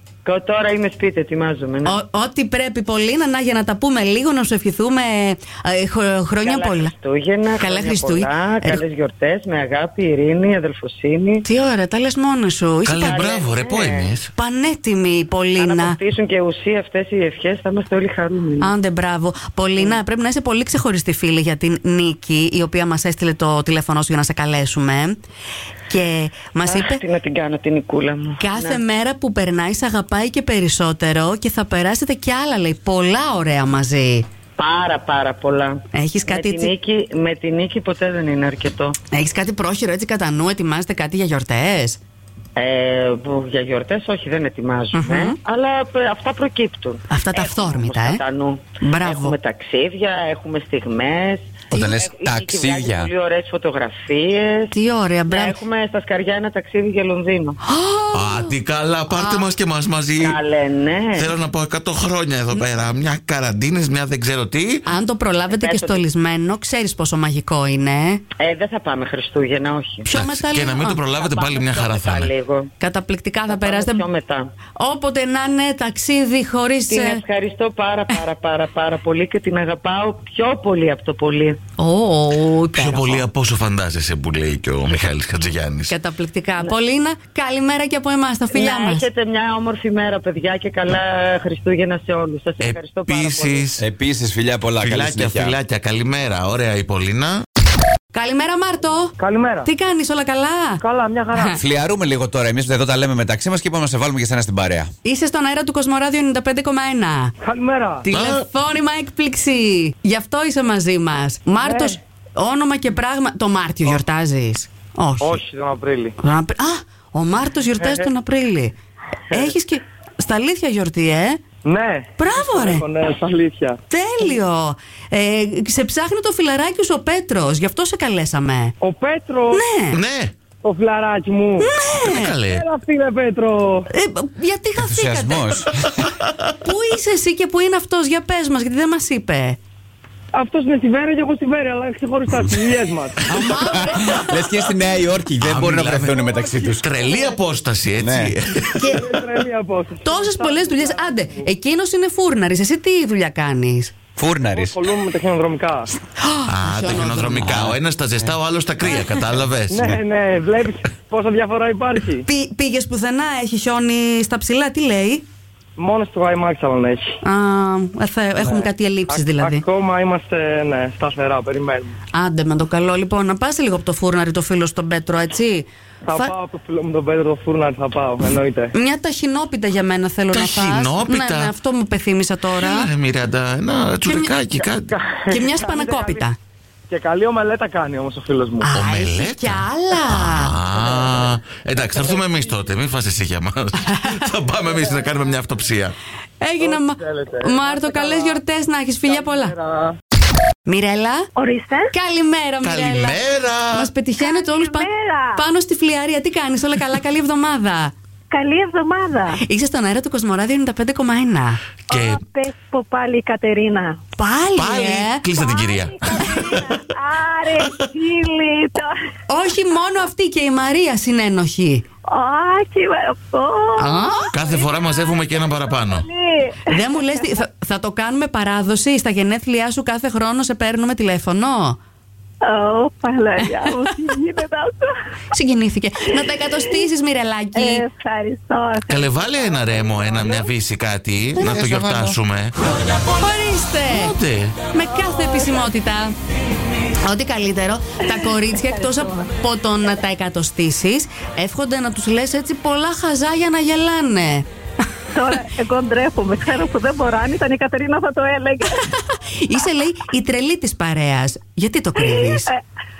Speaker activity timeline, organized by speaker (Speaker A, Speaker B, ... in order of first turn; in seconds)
Speaker A: 0.2-2.0, 6.4-11.4, 13.0-14.1, 15.6-18.7, 26.7-28.8, 34.6-39.0, 42.5-54.7, 55.3-57.6, 60.2-61.3, 65.5-66.0, 68.4-70.1, 71.1-72.7, 73.5-74.5, 76.9-81.6, 88.5-93.7
Speaker B: 1.9-6.9, 7.6-8.8, 11.4-13.2, 14.3-16.0, 18.6-25.2, 25.9-27.0, 28.4-34.3, 35.9-36.7, 39.1-42.0, 44.9-45.4, 47.1-48.2, 48.8-49.4, 54.7-55.6, 57.7-58.5, 59.1-59.5, 64.9-68.2, 70.1-71.0, 72.8-74.0, 74.8-77.2, 81.8-83.2, 85.9-89.1, 98.1-100.8, 101.3-101.6, 105.0-107.3, 108.0-115.4, 116.2-118.8, 119.3-121.4, 122.2-122.8, 123.9-128.7, 129.5-130.0, 131.6-132.3, 133.9-135.6, 136.6-139.6, 143.3-144.6, 148.8-149.0, 150.0-153.9, 156.2-157.5, 162.2-165.2, 167.2-169.6, 172.1-176.3, 178.7-182.9, 184.0-184.3, 185.3-186.3, 188.6-190.6, 193.8-194.1, 196.4-199.5, 200.7-201.3, 201.9-203.2, 203.7-207.9, 209.4-211.6, 214.2-215.2, 219.3-221.8, 223.8-224.3, 226.7-231.8, 235.3-237.8, 241.3-244.2, 244.7-246.1, 247.0-254.5, 259.1-262.5
Speaker C: 12.8-14.3, 58.1-60.4, 61.1-64.9, 70.1-72.3, 82.7-86.0, 92.6-93.8, 94.8-97.4, 108.1-108.5, 129.9-130.3, 132.0-132.7, 145.4-149.0, 156.5-159.9, 180.3-181.5, 182.5-184.9, 188.7-195.9, 202.6-203.9, 211.9-212.2, 214.6-216.7, 224.3-226.1, 238.9-242.5, 243.9-244.7
Speaker D: 51.7-53.1, 93.8-95.5, 101.5-104.9, 134.8-136.1, 143.3-146.8, 148.0-148.3, 154.2-154.8, 157.4-157.8
Speaker E: 99.2-99.7, 100.8-101.6, 107.4-108.1, 111.6-112.0, 115.2-116.2, 121.6-123.8, 128.8-129.6, 130.6-131.8, 132.4-133.9, 140.3-143.4, 148.9-151.5, 154.5-156.0, 159.7-162.2, 165.8-167.2, 168.4-171.9, 176.0-178.7, 184.9-186.2, 186.9-188.7, 196.6-198.4, 199.1-200.0
Speaker F: 201.3-201.9, 204.2-205.4, 208.3-209.4, 211.9-214.0, 215.3-218.9, 222.1-226.8, 232.4-234.9, 237.5-239.2, 248.1-249.3, 255.1-258.9, 261.9-262.6